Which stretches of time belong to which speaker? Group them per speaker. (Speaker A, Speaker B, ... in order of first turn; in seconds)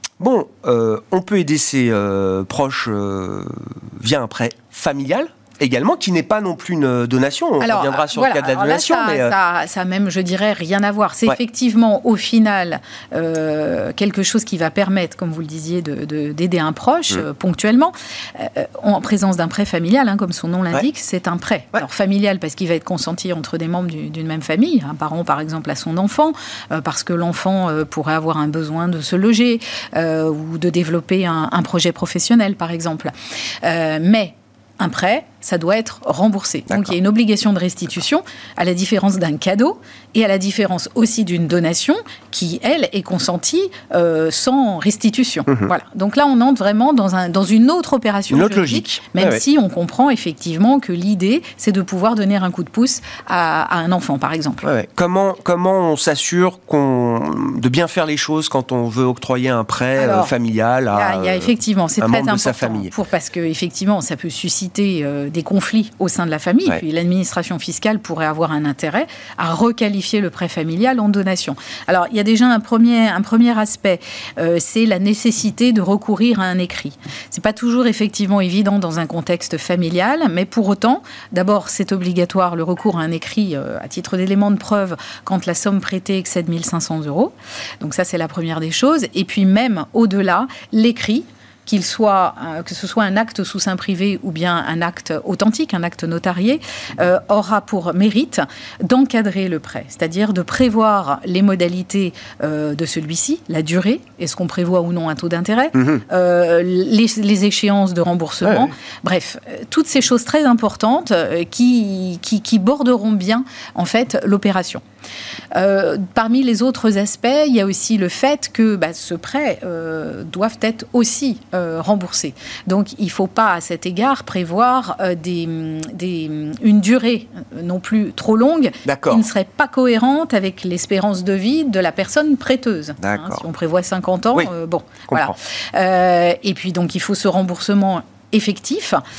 Speaker A: 0.2-9.3, 48.3-49.4, 54.6-62.9, 105.8-106.0, 108.4-108.7, 128.8-129.3, 133.0-133.4, 135.1-135.4
Speaker B: 7.6-54.7, 60.0-60.3, 60.9-114.8, 115.5-139.0